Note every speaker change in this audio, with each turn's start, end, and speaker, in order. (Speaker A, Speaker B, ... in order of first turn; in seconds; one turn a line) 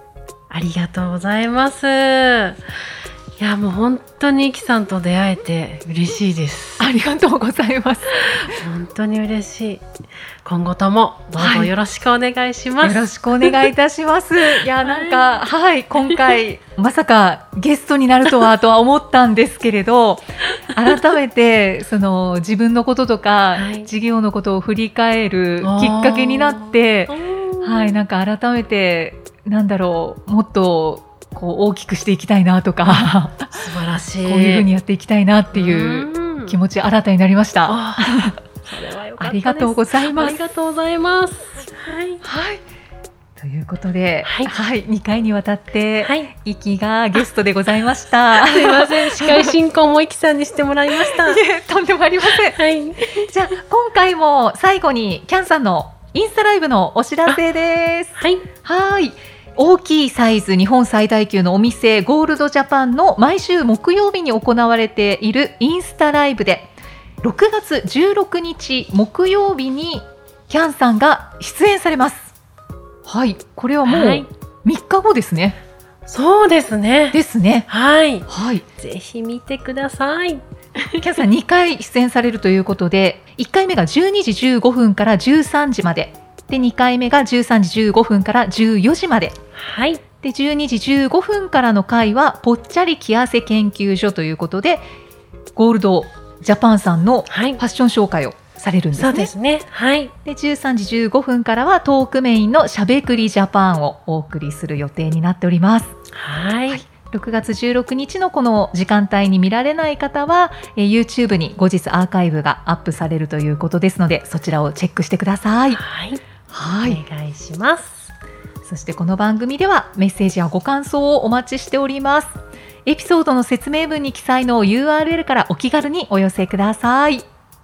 Speaker A: 0.5-2.6
Speaker A: 3.4-6.9
Speaker B: 6.8-8.6
Speaker A: 8.5-9.8
Speaker A: 10.4-13.6
Speaker B: 11.4-11.7
Speaker B: 12.8-33.7
Speaker A: 14.8-15.4
Speaker A: 23.6-23.9
Speaker A: 25.6-28.0
Speaker A: 32.8-34.7
Speaker B: 34.2-38.4
Speaker A: 35.5-36.6
Speaker A: 37.6-42.2
Speaker B: 39.2-40.4
Speaker B: 42.2-42.6
Speaker B: 43.4-49.5
Speaker A: 44.2-44.5
Speaker A: 46.0-46.3
Speaker A: 48.4-51.4
Speaker B: 51.0-52.6
Speaker A: 52.5-53.3
Speaker B: 53.3-66.7
Speaker A: 58.2-58.4
Speaker B: 67.2-72.3
Speaker B: 73.0-75.6
Speaker A: 73.8-74.3
Speaker A: 76.1-81.0
Speaker B: 77.1-77.7
Speaker B: 78.3-78.6
Speaker B: 81.0-89.4
Speaker A: 89.5-90.0
Speaker B: 90.2-94.8
Speaker B: 95.5-99.3
Speaker A: 97.3-97.6
Speaker A: 98.9-100.1
Speaker B: 100.2-105.9
Speaker A: 106.1-106.8
Speaker B: 106.7-115.8
Speaker A: 115.7-116.2
Speaker B: 116.5-117.0
Speaker A: 116.8-118.1
Speaker B: 118.6-122.3
Speaker B: 122.8-127.2